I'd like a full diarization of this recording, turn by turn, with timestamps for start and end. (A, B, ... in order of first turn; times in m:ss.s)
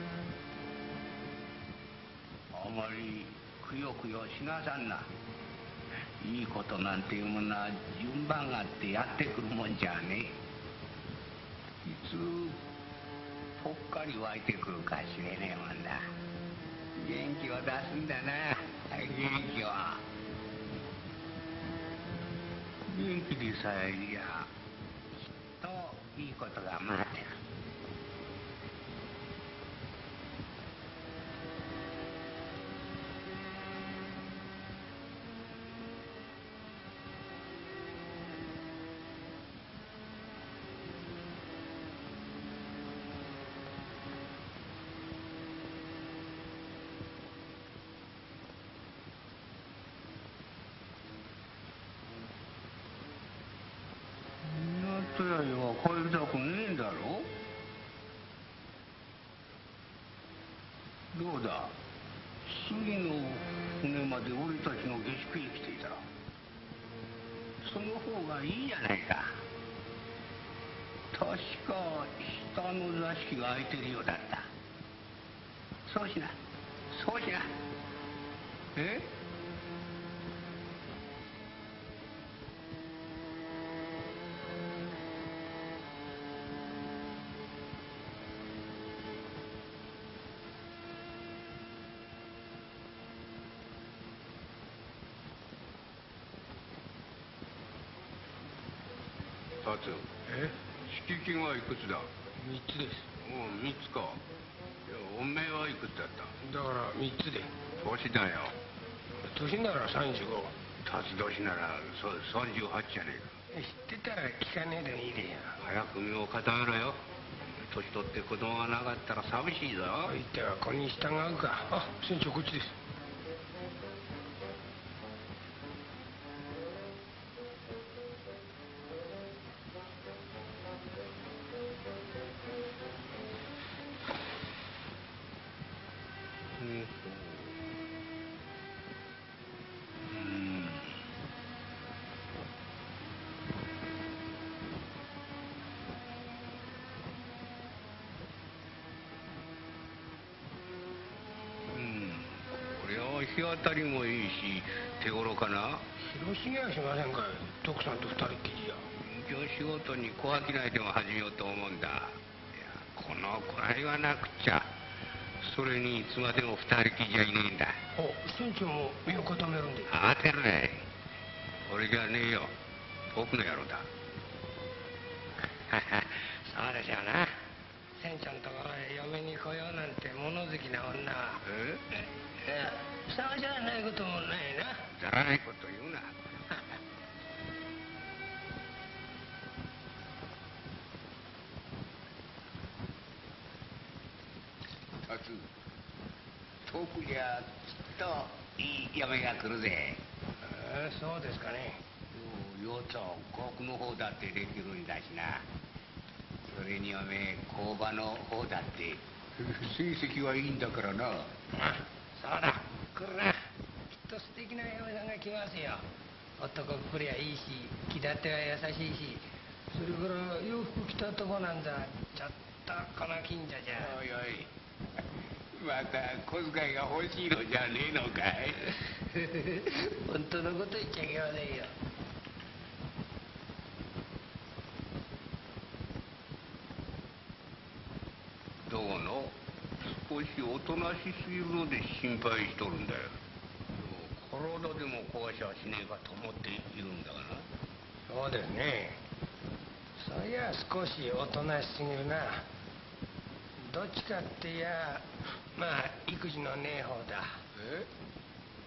0:02.5-0:05.1 A
0:06.2-0:10.4 A
0:11.8-0:12.6 A
0:13.6-0:16.0 A
0:17.0-0:20.0 A
0:22.9-0:24.5 A
0:25.6-0:27.4 A
0:54.4-0:57.3 A
1:01.1-1:01.8 A
1:02.4-1:06.1 A
1:07.6-1:09.4 A
1:11.1-1:14.5 A
1:15.8-1:16.4 A
1:16.9-1:17.5 A
1:18.7-1:19.1 A
1:39.6-1:42.1 A
1:42.4-1:43.1 B
1:43.1-1:44.2 A
1:44.8-1:46.3 A
1:46.4-1:47.5 B
1:47.8-1:48.6 A
1:49.2-1:50.5 B
1:50.8-1:53.3 A
1:53.5-1:55.5 B
1:55.6-1:57.0 A
1:57.6-2:00.1 A
2:00.0-2:02.7 B
2:16.6-2:17.6 A
2:20.1-2:20.9 A
2:31.7-2:35.8 A
2:36.0-2:38.8 B
2:39.0-2:44.7 A
2:45.4-2:47.8 A
2:48.0-2:49.9 B
2:49.9-2:50.9 A
2:51.6-2:52.5 A
2:53.1-2:53.9 A
2:55.6-2:57.3 A
2:58.0-3:01.4 B
3:01.4-3:01.8 A
3:02.4-3:04.9 B
3:05.0-3:06.6 A
3:15.1-3:15.4 A
3:16.7-3:20.0 A
3:20.4-3:21.8 B
3:22.1-3:25.4 A
3:26.5-3:31.3 A
3:31.5-3:33.4 B
3:34.1-3:35.8 B
3:36.4-3:43.9 B
3:43.8-3:44.5 A
3:45.5-3:48.7 A
3:49.8-3:51.7 B
3:58.6-4:03.2 A
4:03.8-4:07.5 A
4:08.1-4:09.0 B
4:10.0-4:12.4 B
4:13.6-4:17.8 B